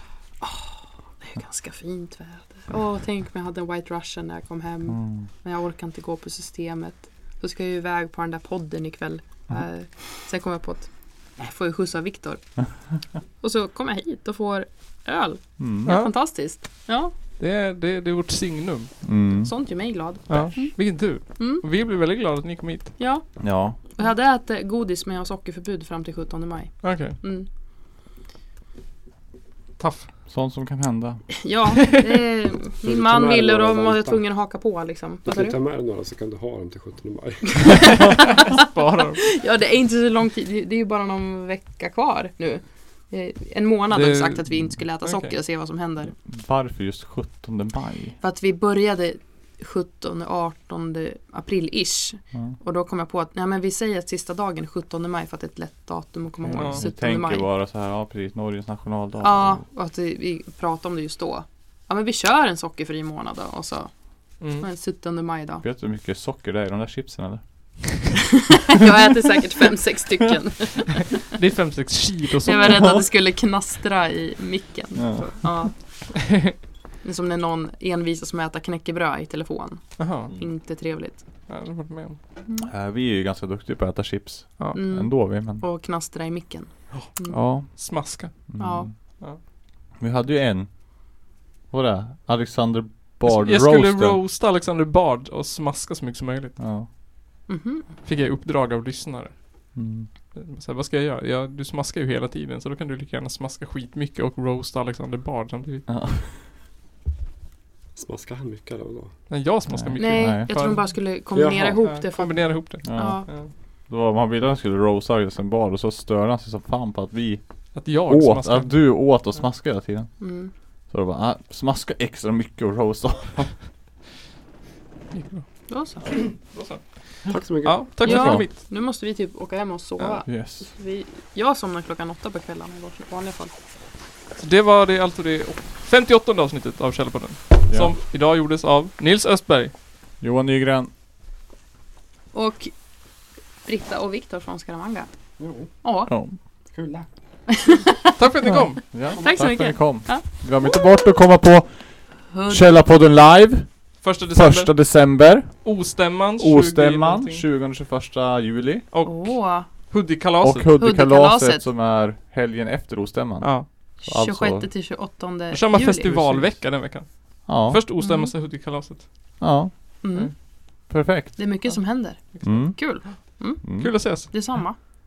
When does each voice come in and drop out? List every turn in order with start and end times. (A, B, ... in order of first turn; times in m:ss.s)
0:00.4-0:12.5 A
0:04.9-0:05.3 B
0:13.4-0:17.1 A
0:15.6-0:15.9 B
0:15.8-0:16.1 C
0:17.4-0:18.9 C
0:19.0-0:19.5 B
0:19.4-0:21.6 A
0:20.3-0:23.0 C
0:23.0-0:27.5 A
0:23.4-0:23.8 B
0:26.8-0:27.2 C
0:29.8-0:30.1 C
0:30.3-0:31.4 B
0:31.4-0:35.6 A
0:32.8-0:34.2 D
0:35.2-0:37.9 D
0:37.5-0:46.1 A
0:38.4-0:39.2 C
0:43.9-0:44.4 C
0:45.0-0:45.3 C
0:46.2-0:48.2 B
0:48.2-0:57.5 A
0:56.4-0:59.6 B
0:56.6-0:56.8 C
0:59.2-1:03.9 A
1:04.4-1:04.6 C
1:04.6-1:05.6 A
1:05.6-1:07.4 B
1:08.5-1:11.2 A
1:11.3-1:13.0 C
1:12.4-1:15.7 A
1:12.6-1:13.0 B
1:15.0-1:15.4 B
1:17.0-1:21.2 A
1:20.0-1:20.3 C
1:21.5-1:22.2 C
1:22.6-1:25.6 B
1:24.7-1:27.4 A
1:27.3-1:27.8 B
1:27.7-1:28.4 C
1:28.5-1:28.9 B
1:28.6-1:28.9 A
1:30.0-1:30.8 B
1:31.7-1:34.2 B
1:33.2-1:36.6 C
1:36.6-1:36.9 B
1:37.5-1:37.9 A
1:38.0-1:39.8 C
1:39.7-1:40.1 B
1:40.3-1:45.8 C
1:45.9-1:46.3 B
1:47.9-1:49.1 D
1:49.3-1:50.8 C
1:49.7-1:50.5 B
1:50.0-1:53.3 A
1:51.3-1:51.8 D
1:51.8-1:53.5 C
1:52.8-1:53.2 B
1:53.9-2:00.2 B
1:57.7-1:58.8 C
2:00.2-2:00.5 A
2:00.9-2:03.7 B
2:05.1-2:05.5 C
2:05.7-2:06.1 A
2:06.0-2:08.5 C
2:07.3-2:08.0 D
2:08.0-2:13.5 A
2:08.0-2:08.4 B
2:10.2-2:10.6 B
2:14.4-2:19.7 C
2:20.2-2:20.9 B
2:22.3-2:22.7 A
2:23.6-2:25.1 A
2:25.4-2:25.7 D
2:25.8-2:26.1 A
2:26.1-2:26.4 B
2:26.7-2:27.1 D
2:27.5-2:28.2 A
2:28.2-2:28.9 C
2:28.5-2:35.8 B
2:29.1-2:30.2 A
2:32.3-2:32.8 A
2:34.0-2:34.7 C
2:35.6-2:37.4 C
2:36.4-2:38.8 B
2:38.9-2:40.7 C
2:39.0-2:39.7 A
2:40.4-2:44.7 B
2:40.8-2:41.6 A
2:43.4-2:43.7 C
2:44.0-2:46.5 A
2:45.5-2:49.1 C
2:47.4-2:47.8 B
2:48.0-2:48.3 A
2:49.4-2:50.0 B
2:50.0-2:54.8 A
2:50.9-2:51.5 B
2:52.4-2:53.9 B
2:53.8-2:54.3 C